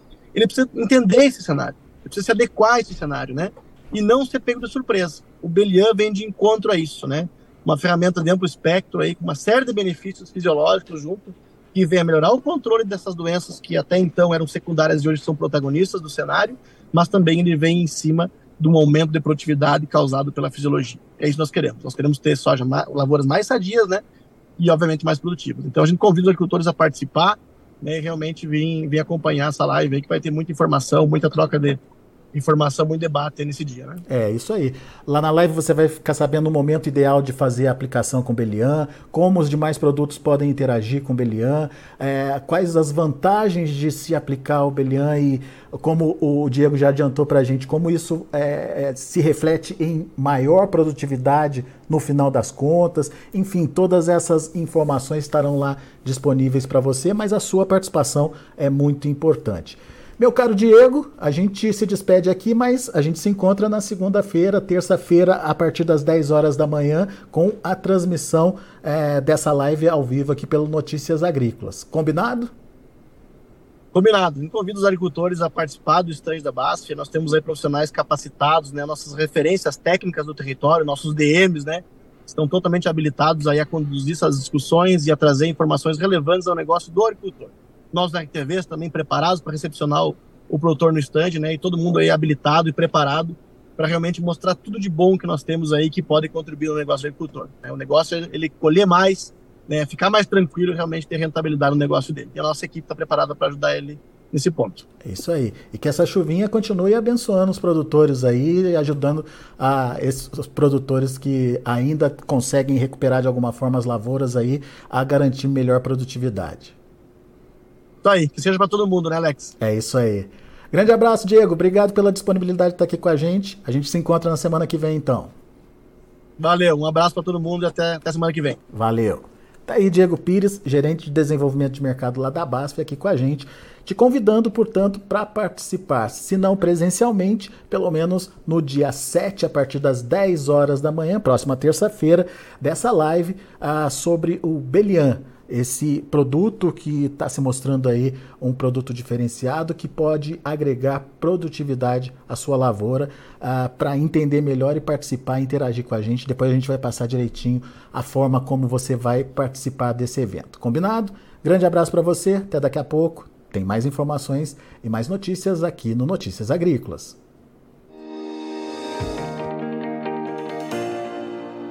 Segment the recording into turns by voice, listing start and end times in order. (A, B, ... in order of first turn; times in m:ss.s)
0:00.3-0:24.0 A
0:24.6-0:31.8 A
0:32.3-0:34.0 A
0:34.1-1:12.5 B
1:13.9-1:44.8 A
1:45.0-1:56.7 B
1:58.0-1:59.5 A
1:59.6-2:05.3 B
2:06.4-2:08.6 A
2:08.7-2:47.2 B